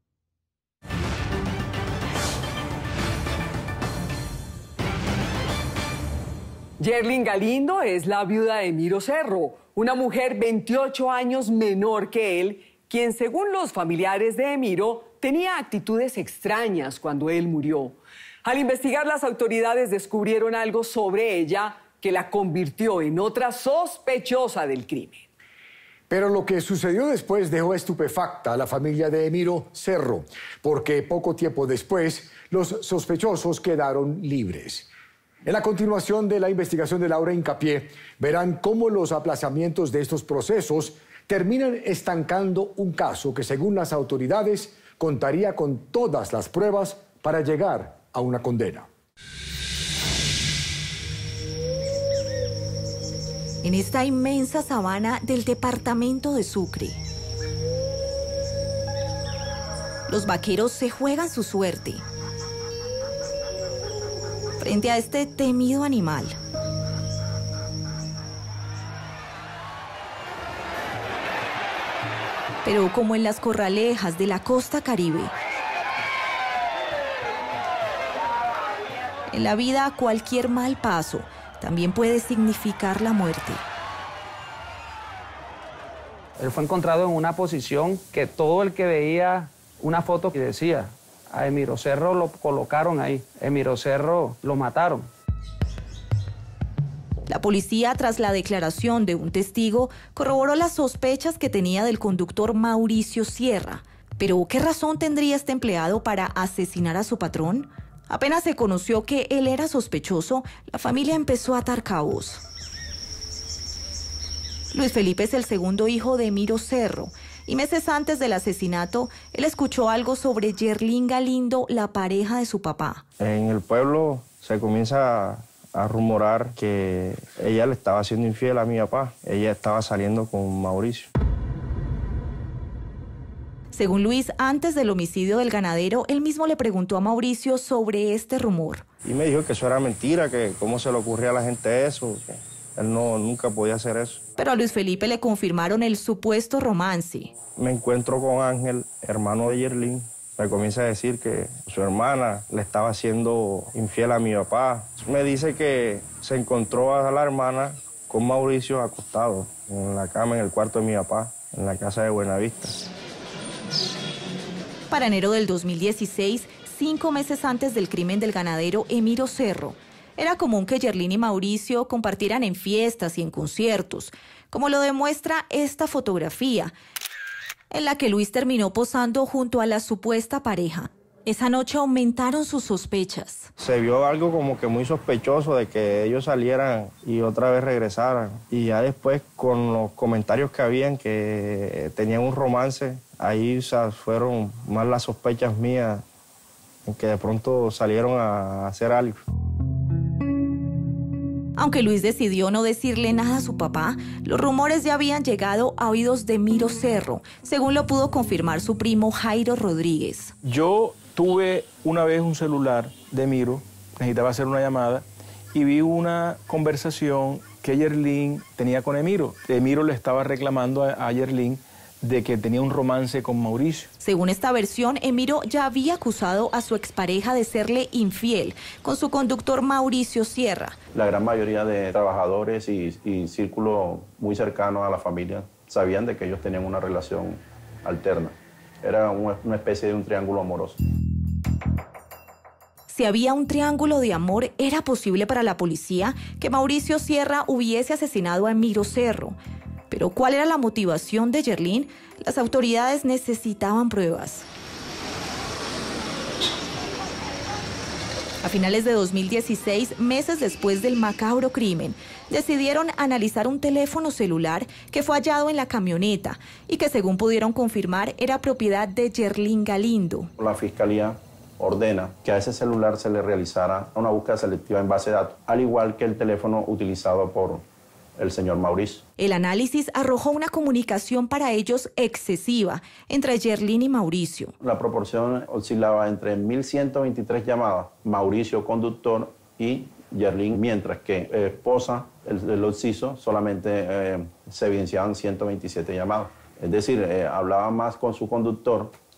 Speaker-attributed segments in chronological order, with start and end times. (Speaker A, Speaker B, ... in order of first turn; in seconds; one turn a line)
Speaker A: 6.8-25.2
Speaker B: 26.1-34.9
Speaker B: 35.5-48.9
Speaker C: 53.6-57.0
Speaker C: 60.1-62.0
Speaker C: 64.6-66.4
Speaker C: 72.6-75.3
Speaker C: 79.3-83.6
Speaker D: 86.4-95.1
Speaker C: 97.3-112.4
Speaker C: 114.7-123.0
Speaker E: 123.2-131.1
Speaker C: 133.7-138.8
Speaker E: 139.0-144.2
Speaker C: 144.4-147.3
Speaker E: 147.6-162.9
Speaker C: 164.9-176.7
Speaker C: 177.7-183.5
Speaker E: 183.6-196.0
Speaker E: 196.9-199.2
Speaker C: 201.6-210.3
Speaker F: 210.4-223.9
Speaker C: 224.0-230.8
Speaker G: 230.9-240.8
Speaker C: 242.9-249.4
Speaker C: 249.9-254.5
Speaker C: 258.4-270.3
Speaker G: 270.4-277.6
Speaker G: 278.2-279.0
Speaker C: 279.2-284.6
Speaker G: 284.6-298.9